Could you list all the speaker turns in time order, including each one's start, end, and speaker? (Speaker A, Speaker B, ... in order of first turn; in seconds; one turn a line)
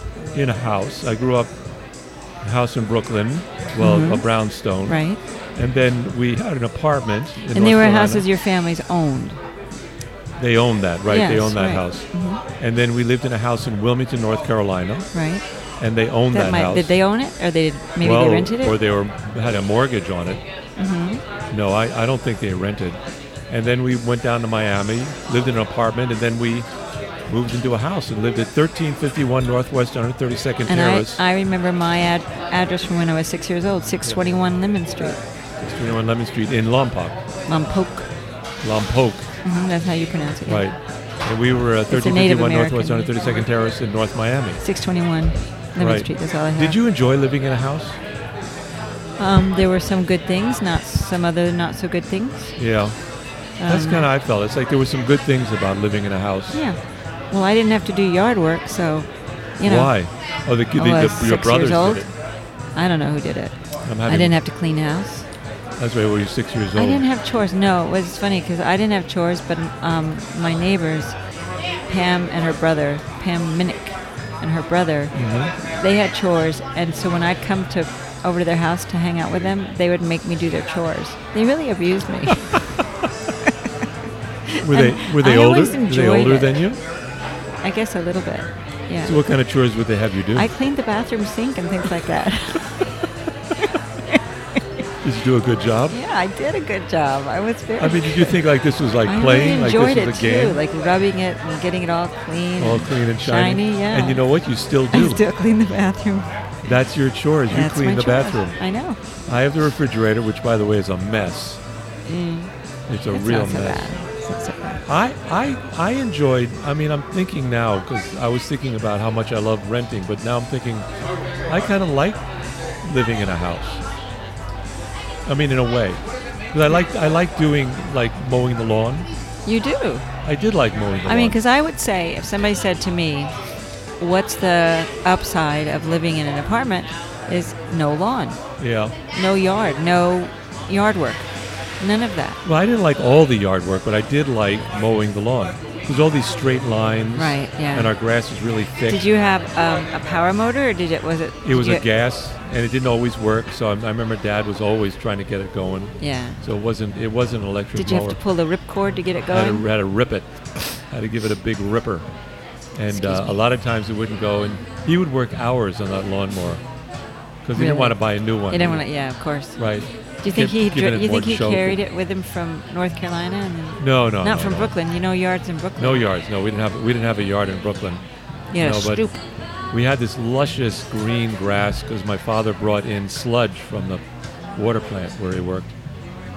Speaker A: 0.3-1.5
Speaker A: 2.4-5.0
Speaker B: 3.8-4.2
Speaker B: 4.8-5.2
Speaker A: 5.5-8.2
Speaker B: 7.5-9.4
Speaker A: 10.4-12.0
Speaker B: 11.1-12.4
Speaker A: 12.6-15.1
Speaker B: 15.1-15.4
Speaker A: 15.8-16.9
Speaker B: 16.3-18.8
Speaker A: 18.0-20.4
Speaker B: 20.8-21.2
Speaker A: 21.5-26.7
Speaker A: 27.3-31.2
Speaker B: 30.7-35.2
Speaker A: 35.6-37.2
Speaker B: 37.5-38.1
Speaker A: 38.6-39.3
Speaker B: 39.4-40.7
Speaker A: 40.5-44.6
Speaker B: 41.9-43.1
Speaker B: 44.6-46.8
Speaker A: 45.8-48.0
Speaker B: 49.2-52.5
Speaker A: 52.6-53.0
Speaker B: 53.6-54.0
Speaker A: 53.6-56.6
Speaker B: 56.5-56.8
Speaker B: 57.3-59.9
Speaker A: 59.6-62.1
Speaker B: 60.8-62.0
Speaker B: 62.8-65.2
Speaker A: 63.8-64.3
Speaker A: 65.8-67.0
Speaker B: 66.7-71.2
Speaker B: 71.9-82.6
Speaker A: 75.1-75.5
Speaker B: 84.5-86.6
Speaker A: 84.6-86.8
Speaker B: 87.6-89.2
Speaker A: 89.0-90.5
Speaker B: 90.3-92.7
Speaker B: 93.6-94.2
Speaker A: 95.0-96.0
Speaker B: 95.9-98.4
Speaker A: 97.8-100.6
Speaker B: 99.0-104.2
Speaker A: 102.6-105.2
Speaker B: 104.9-106.3
Speaker A: 106.6-108.6
Speaker B: 107.5-109.0
Speaker A: 109.3-111.6
Speaker B: 112.0-112.5
Speaker A: 112.9-113.9
Speaker B: 113.1-114.8
Speaker A: 114.8-120.9
Speaker A: 121.5-122.2
Speaker A: 122.8-123.8
Speaker A: 125.2-129.1
Speaker B: 129.4-130.1
Speaker A: 130.2-131.4
Speaker B: 131.1-133.3
Speaker B: 134.0-138.4
Speaker A: 138.6-138.9
Speaker B: 139.1-141.3
Speaker B: 141.8-142.4
Speaker A: 142.4-149.0
Speaker B: 147.2-147.9
Speaker B: 148.9-151.8
Speaker A: 151.4-158.2
Speaker B: 156.0-156.4
Speaker B: 157.8-159.7
Speaker A: 159.3-162.1
Speaker A: 162.7-166.6
Speaker B: 162.9-163.3
Speaker A: 167.4-168.8
Speaker B: 167.6-169.6
Speaker A: 169.6-171.8
Speaker B: 170.2-176.0
Speaker A: 173.8-174.7
Speaker A: 175.8-178.0
Speaker B: 178.5-179.2
Speaker A: 178.6-179.0
Speaker A: 179.7-184.0
Speaker A: 184.5-185.7